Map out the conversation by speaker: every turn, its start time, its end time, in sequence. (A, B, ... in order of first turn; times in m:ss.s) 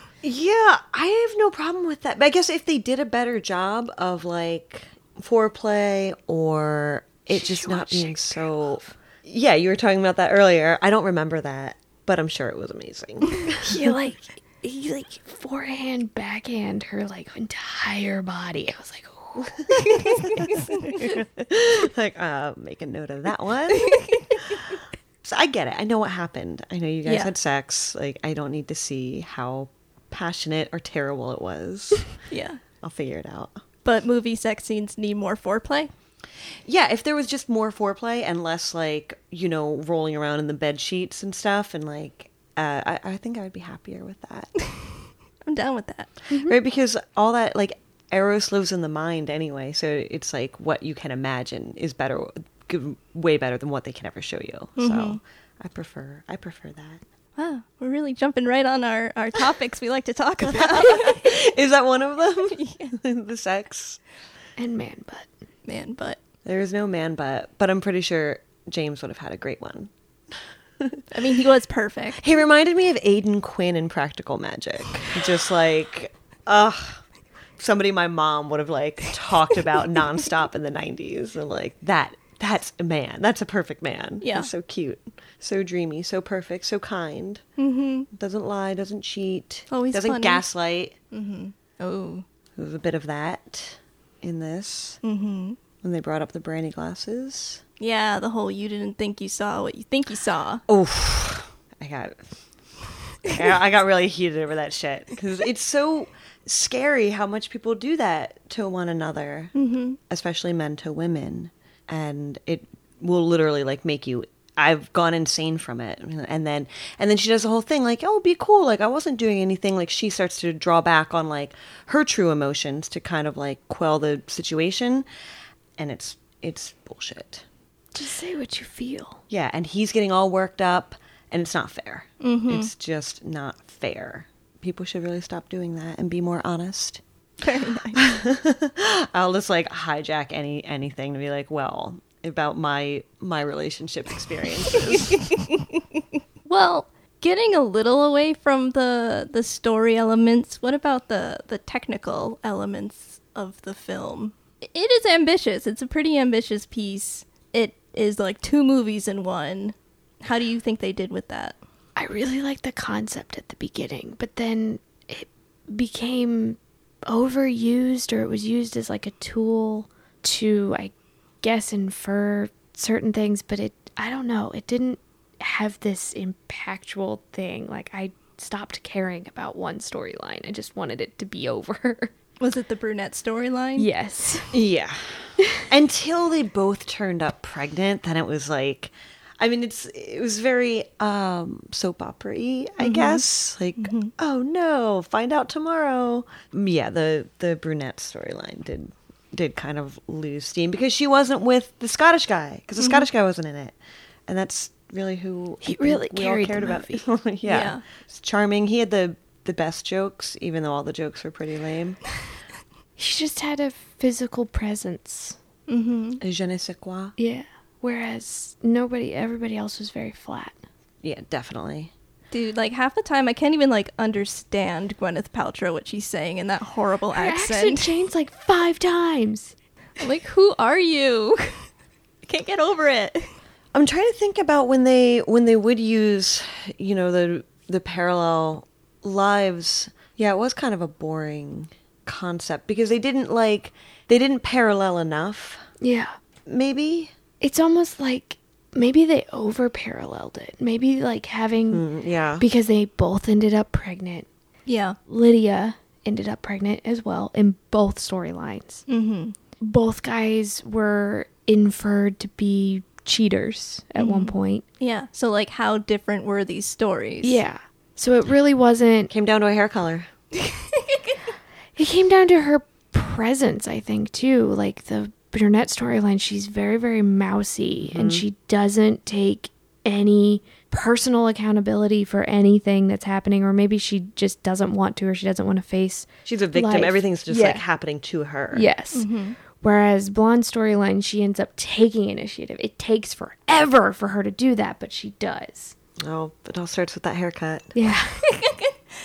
0:00.2-0:13.9 A
0:07.3-0:08.9 B
0:13.6-0:20.5 B
0:19.8-0:24.7 A
0:23.8-0:24.2 C
0:25.2-0:32.1 A
0:27.0-0:27.3 C
0:32.3-0:32.6 C
0:32.8-0:33.6 A
0:33.8-0:35.9 C
0:36.6-0:44.5 A
0:45.4-0:46.1 C
0:46.3-0:46.5 B
0:46.3-0:57.0 A
0:54.8-0:55.2 C
0:57.4-1:01.4 C
1:00.5-1:04.0 A
1:02.6-1:02.9 C
1:04.6-1:05.3 B
1:05.6-1:06.2 C
1:06.4-1:09.9 A
1:11.1-1:12.3 C
1:12.2-1:17.0 A
1:17.6-1:27.4 A
1:24.2-1:24.5 C
1:27.6-1:28.1 C
1:28.1-1:31.0 A
1:29.7-1:30.4 C
1:31.1-1:32.2 C
1:32.6-1:35.0 A
1:35.0-1:35.6 C
1:35.8-1:37.6 A
1:37.8-1:40.6 C
1:40.7-1:42.2 A
1:43.2-1:49.5 A
1:49.5-1:50.0 C
1:50.1-2:05.0 A
2:05.8-2:07.4 A
2:07.9-2:09.2 B
2:09.3-2:17.0 A
2:12.2-2:12.7 C
2:17.4-2:18.0 C
2:17.9-2:25.3 A
2:25.1-2:25.8 C
2:26.4-2:41.6 C
2:42.0-3:02.1 B
3:02.4-3:03.9 C
3:03.8-3:04.5 B
3:04.5-3:23.8 A
3:12.8-3:13.2 C
3:13.8-3:14.1 C
3:22.8-3:23.0 C
3:24.3-3:32.0 A
3:25.6-3:27.0 B
3:27.4-3:27.8 C
3:33.0-3:35.4 B
3:35.7-3:36.2 C
3:36.2-3:37.1 A
3:37.2-3:40.6 B
3:41.0-3:41.9 A
3:42.3-3:47.9 C
3:47.1-3:49.5 B
3:50.0-3:51.7 C
3:52.2-3:53.3 C
3:53.7-4:05.6 A
4:05.8-4:06.1 B
4:06.5-4:07.1 A
4:07.4-4:11.8 B
4:11.7-4:12.4 A
4:12.4-4:14.3 B
4:14.6-4:15.0 C
4:15.1-4:18.8 B
4:18.9-4:19.3 C
4:19.6-4:24.6 B
4:24.0-4:27.4 C
4:27.2-4:29.1 B
4:29.1-4:30.1 A
4:30.5-4:31.1 C
4:31.8-4:47.6 B
4:37.8-4:38.2 A
4:46.2-4:48.7 A
4:48.5-4:49.1 B
4:48.9-4:49.4 C
4:49.6-4:55.8 B
4:56.0-4:57.7 A
4:57.8-4:58.2 B
4:58.2-4:58.8 C